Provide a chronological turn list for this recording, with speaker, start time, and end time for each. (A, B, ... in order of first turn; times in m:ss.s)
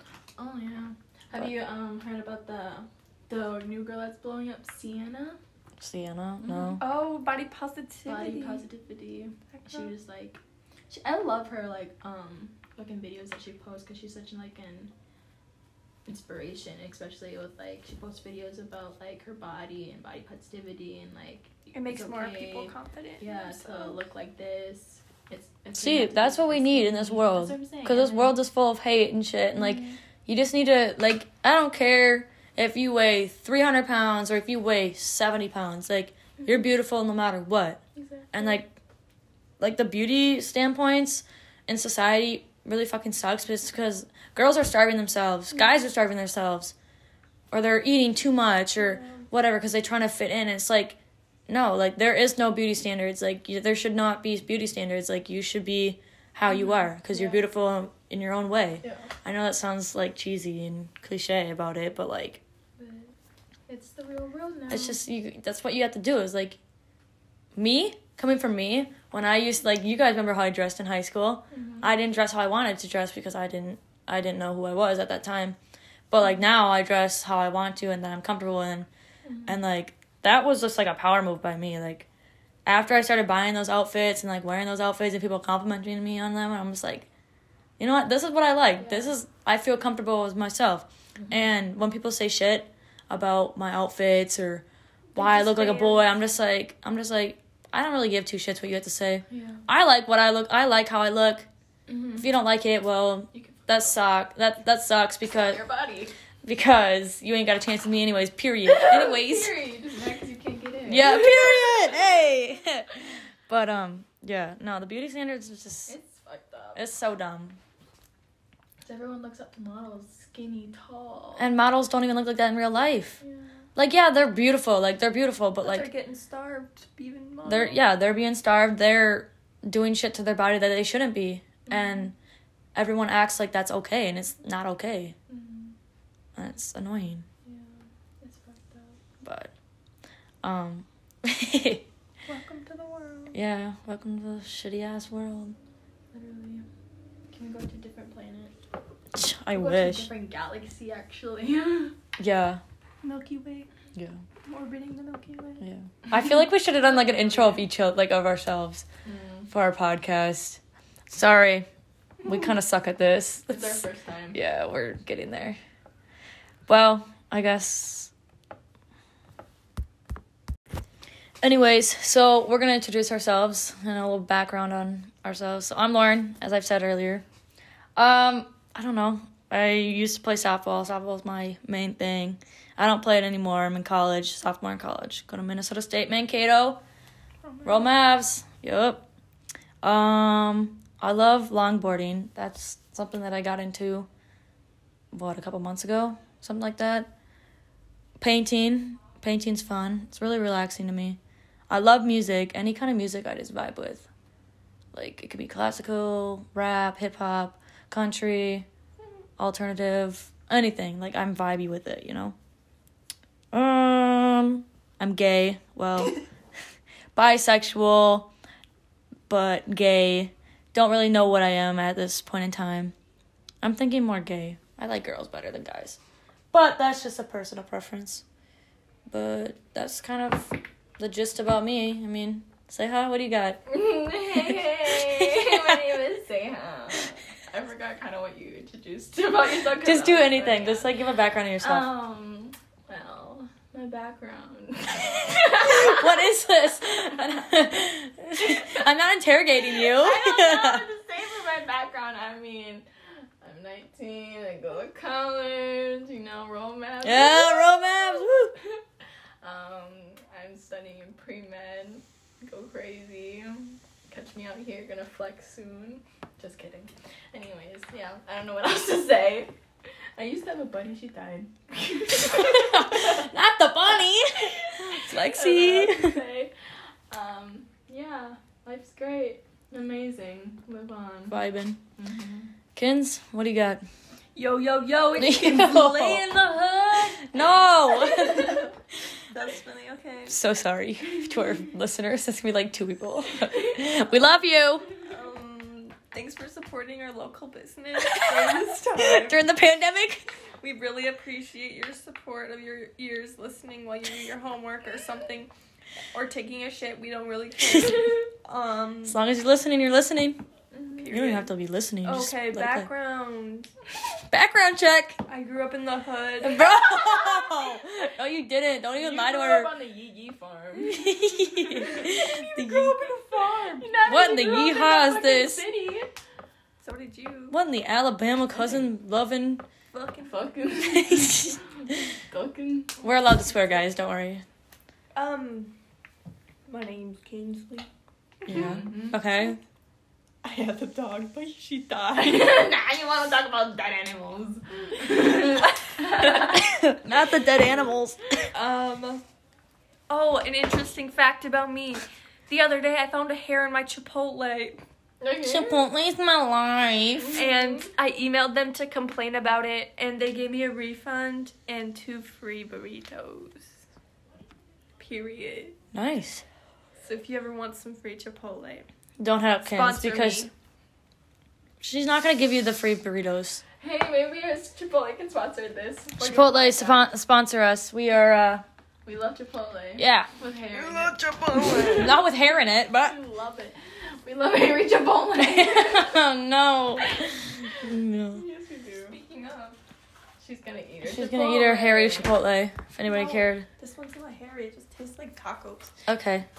0:00.4-0:05.4 A
0:05.8-0:06.8 B
0:06.4-0:06.8 A
0:06.8-0:08.6 C
0:08.0-0:14.9 A
0:09.5-0:09.9 C
0:16.0-0:28.4 A
0:21.7-0:24.0 C
0:25.8-0:37.8 B
0:29.6-0:30.0 A
0:38.0-0:38.6 A
0:38.3-0:38.7 B
0:39.6-0:46.7 B
0:47.5-1:02.4 B
0:56.5-0:57.5 A
0:58.8-0:59.1 A
1:02.8-1:03.1 A
1:03.7-1:05.0 A
1:04.7-1:06.6 B
1:07.6-1:15.6 B
1:11.5-1:11.9 A
1:16.1-1:18.9 B
1:19.2-1:19.6 A
1:19.4-1:22.1 B
1:22.6-1:27.1 B
1:27.8-1:41.5 B
1:28.8-1:29.2 A
1:31.2-1:31.5 A
1:35.2-1:36.1 A
1:39.3-1:39.6 A
1:41.9-1:42.3 A
1:42.2-1:45.6 B
1:43.3-1:43.9 A
1:45.4-1:46.1 A
1:46.4-1:49.5 B
1:48.7-1:52.3 A
1:50.9-1:53.0 B
1:53.5-1:55.9 B
1:55.9-1:56.8 A
1:56.8-1:57.6 B
1:58.8-2:01.5 A
2:01.4-2:03.2 B
2:03.2-2:03.5 A
2:03.8-2:05.9 B
2:05.6-2:07.8 C
2:07.4-2:12.1 B
2:11.7-2:12.1 A
2:12.7-2:15.2 B
2:15.3-2:15.7 A
2:16.4-2:17.2 B
2:17.4-2:19.0 A
2:19.2-2:19.5 B
2:20.4-2:21.8 B
2:22.2-2:23.4 C
2:23.3-2:25.6 B
2:26.1-2:26.6 A
2:27.3-2:28.5 A
2:29.1-2:30.1 B
2:29.5-2:31.9 A
2:32.2-2:32.6 B
2:33.0-2:33.7 C
2:33.9-2:34.2 B
2:34.4-2:35.6 C
2:35.6-2:38.8 B
2:37.0-2:37.6 C
2:39.0-2:39.5 A
2:39.5-2:41.7 B
2:42.2-2:45.6 B
2:43.5-2:44.4 A
2:46.7-2:48.1 B
2:51.4-2:57.2 B
2:58.0-3:06.8 B
3:07.4-3:07.9 C
3:07.6-3:09.0 B
3:09.8-3:14.1 B
3:15.1-3:17.1 B
3:18.2-3:21.2 B
3:21.7-3:24.1 B
3:24.9-3:28.7 B
3:29.4-3:32.4 B
3:33.5-3:36.2 B
3:37.1-3:38.3 B
3:39.3-3:42.9 B
3:43.6-3:46.0 B
3:46.5-3:48.2 B
3:49.1-3:53.6 B
3:53.7-4:00.9 A
3:54.6-3:55.8 B
3:59.8-4:01.9 B
4:01.6-4:06.3 A
4:05.6-4:10.8 B
4:08.4-4:08.8 A
4:09.6-4:12.8 A
4:13.4-4:18.8 A
4:17.0-4:18.5 B
4:19.4-4:29.5 A
4:30.2-4:33.3 A
4:32.2-4:36.2 B
4:34.4-4:36.5 A
4:37.1-4:41.4 A
4:41.3-4:41.8 B
4:42.0-4:42.5 A
4:42.8-4:43.8 B
4:44.3-4:47.2 C
4:45.2-4:48.7 B
4:48.0-4:48.6 A
4:49.3-4:50.4 C
4:50.3-4:54.9 B
4:55.0-4:59.5 C
4:58.9-5:00.2 B
5:00.6-5:05.5 C
5:06.1-5:09.2 C
5:07.6-5:08.1 B
5:09.0-5:10.4 B
5:10.7-5:11.2 A
5:11.0-5:11.5 C
5:11.1-5:12.9 B
5:12.0-5:13.7 C
5:14.3-5:15.2 B
5:15.3-5:16.8 C
5:16.4-5:19.7 B
5:16.9-5:17.6 A
5:18.9-5:22.7 A
5:20.9-5:23.1 B
5:22.5-5:24.0 C
5:23.2-5:26.1 A
5:24.0-5:25.6 B
5:26.8-5:27.6 C
5:27.5-5:29.6 B
5:28.5-5:28.9 A
5:29.9-5:30.5 C
5:30.2-5:33.0 A
5:30.9-5:31.6 B
5:33.0-5:34.4 B
5:35.1-5:35.7 C
5:36.7-5:37.9 C
5:38.4-5:38.8 C
5:38.5-5:39.6 B
5:38.5-5:39.2 A
5:40.4-5:42.5 C
5:42.1-5:46.7 A
5:46.5-5:48.2 B
5:48.5-5:49.2 C
5:50.1-5:54.8 C
5:55.2-5:55.8 A
5:55.4-5:57.4 B
5:57.2-5:57.9 A
5:57.3-6:03.7 C
6:05.0-6:05.7 C
6:05.9-6:06.4 B
6:07.0-6:08.8 C
6:09.2-6:10.5 B
6:09.6-6:10.5 C
6:11.8-6:13.6 B
6:13.8-6:17.1 A
6:16.2-6:18.6 B
6:19.0-6:22.2 A
6:20.0-6:20.3 B
6:21.4-6:23.1 B
6:21.6-6:22.0 C
6:22.9-6:26.2 A
6:25.4-6:28.4 B
6:27.0-6:27.8 A
6:28.3-6:29.2 A
6:29.1-6:29.8 C
6:30.4-6:32.4 A
6:31.0-6:33.6 B
6:33.0-6:35.9 C
6:36.1-6:36.5 B